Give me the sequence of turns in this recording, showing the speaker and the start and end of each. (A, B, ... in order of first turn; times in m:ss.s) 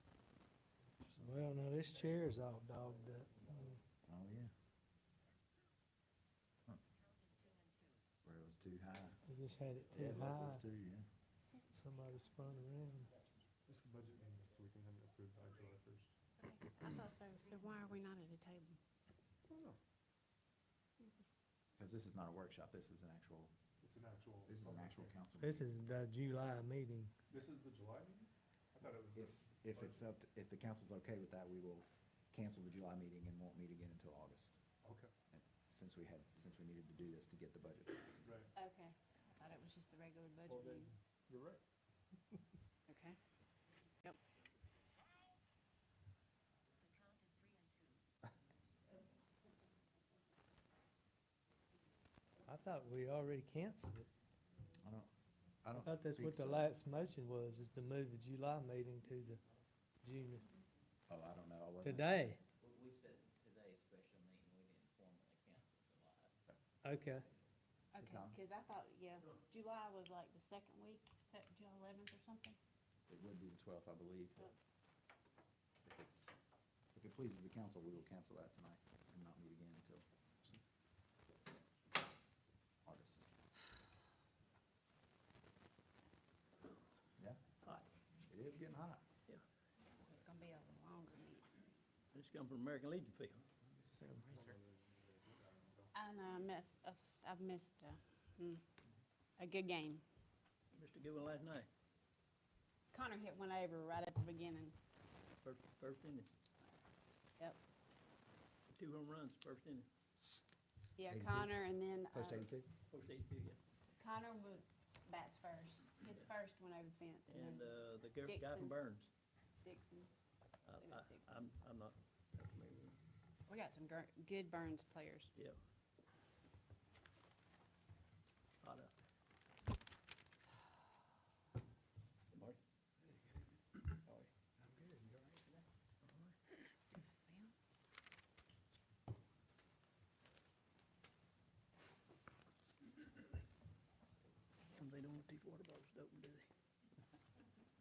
0:01.0-0:03.8 A
0:04.0-0:04.5 B
0:08.2-0:09.2 B
0:09.3-0:10.6 A
0:09.9-0:11.0 B
0:11.4-0:11.8 C
0:11.7-0:13.1 A
0:13.6-0:16.1 D
0:16.4-0:18.8 C
0:19.5-0:19.8 D
0:21.8-0:23.5 B
0:23.8-0:25.2 D
0:24.4-0:25.7 B
0:25.4-0:27.1 A
0:27.3-0:30.0 D
0:29.1-0:34.6 B
0:34.8-0:35.1 D
0:35.3-0:38.3 B
0:38.2-0:38.5 D
0:38.5-0:40.9 C
0:40.5-0:41.6 D
0:42.9-0:43.2 C
0:52.4-0:54.1 A
0:54.8-0:55.1 B
0:55.6-0:56.7 B
0:55.8-0:59.4 A
1:00.0-1:00.4 A
1:01.1-1:02.2 B
1:01.8-1:02.4 A
1:02.6-1:06.3 E
1:06.8-1:07.3 A
1:07.9-1:12.6 C
1:07.9-1:08.4 B
1:13.1-1:14.5 B
1:15.8-1:16.3 B
1:16.9-1:20.0 B
1:22.8-1:23.3 B
1:28.2-1:29.0 B
1:29.8-1:31.5 C
1:32.1-1:33.5 F
1:33.6-1:34.5 B
1:34.2-1:35.9 D
1:35.9-1:38.6 C
1:39.4-1:40.0 C
1:40.7-1:41.7 F
1:42.9-1:44.7 C
1:45.4-1:46.3 F
1:48.7-1:49.9 F
1:51.0-1:52.5 C
1:51.1-1:51.5 B
1:52.1-1:52.7 B
1:52.9-1:53.6 F
1:54.0-1:58.7 C
1:57.3-1:59.1 F
1:59.6-2:00.1 C
2:00.6-2:03.0 F
2:00.8-2:01.4 C
2:03.5-2:05.3 C
2:08.6-2:08.9 F
2:12.3-2:12.6 F
2:14.0-2:14.3 F
2:14.6-2:15.6 B
2:16.0-2:16.3 F
2:24.7-2:26.5 F